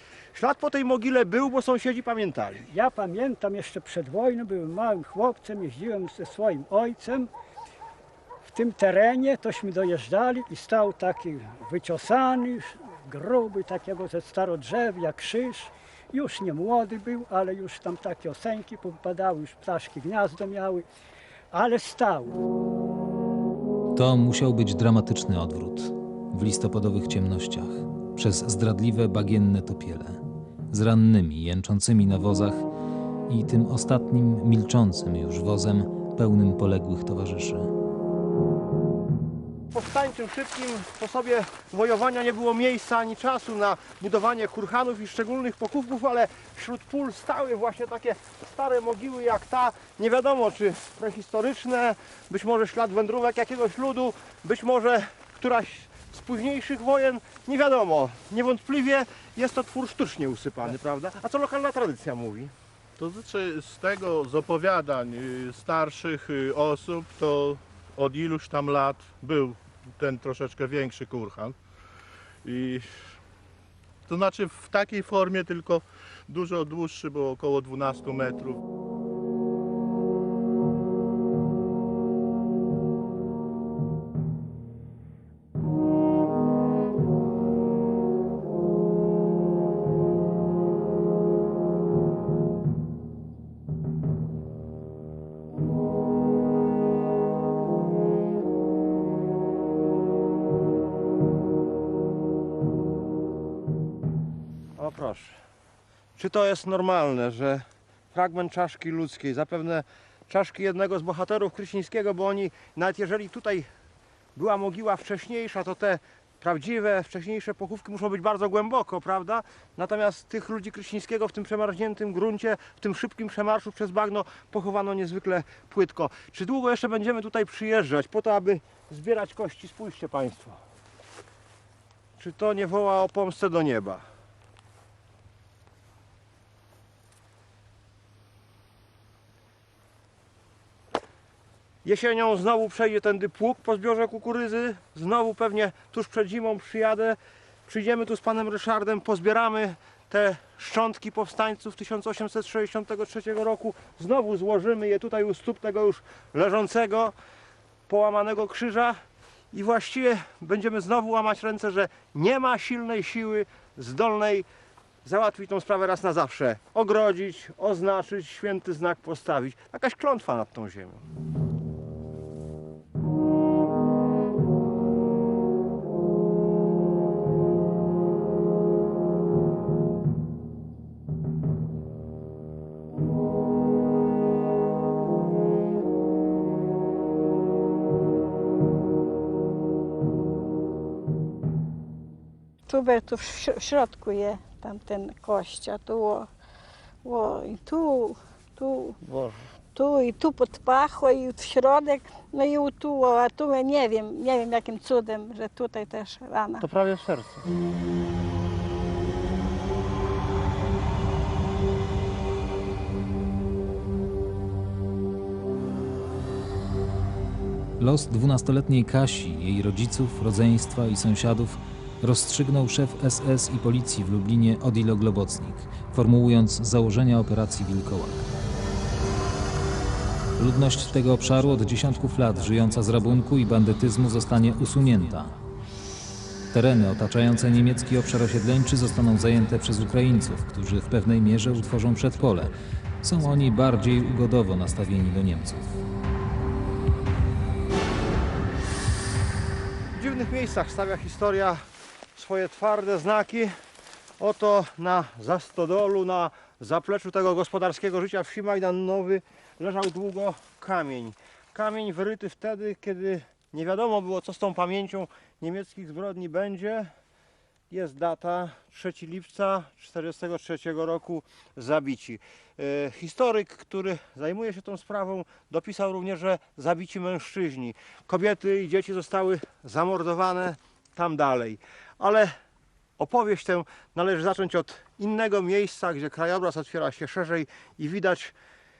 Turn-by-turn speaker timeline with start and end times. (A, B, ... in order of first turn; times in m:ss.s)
0:00.3-0:02.7 A
0:02.7-0:07.3 B
0:08.4-0:20.8 B
0:21.5-0:22.4 B
0:24.0-0:32.6 C
0:33.3-0:37.7 C
0:39.7-1:02.5 A
1:03.0-1:11.6 D
1:12.4-1:13.1 D
1:14.1-1:18.6 D
1:44.8-1:45.4 A
1:46.2-1:53.7 A
1:54.4-2:10.6 A
2:12.2-2:14.0 A
2:21.8-2:37.1 A
2:37.9-2:39.0 A
2:39.5-2:44.5 A
2:45.0-2:51.0 A
3:12.7-3:16.3 E
3:17.0-3:19.0 E
3:19.0-3:19.5 A
3:19.8-3:26.7 E
3:26.6-3:27.4 A
3:37.8-3:48.3 C
3:50.4-3:55.3 C
3:56.5-4:05.7 C
4:09.9-4:11.6 A
4:12.2-4:13.5 A
4:14.2-4:26.9 A
4:27.7-4:42.3 A
4:43.0-4:48.4 A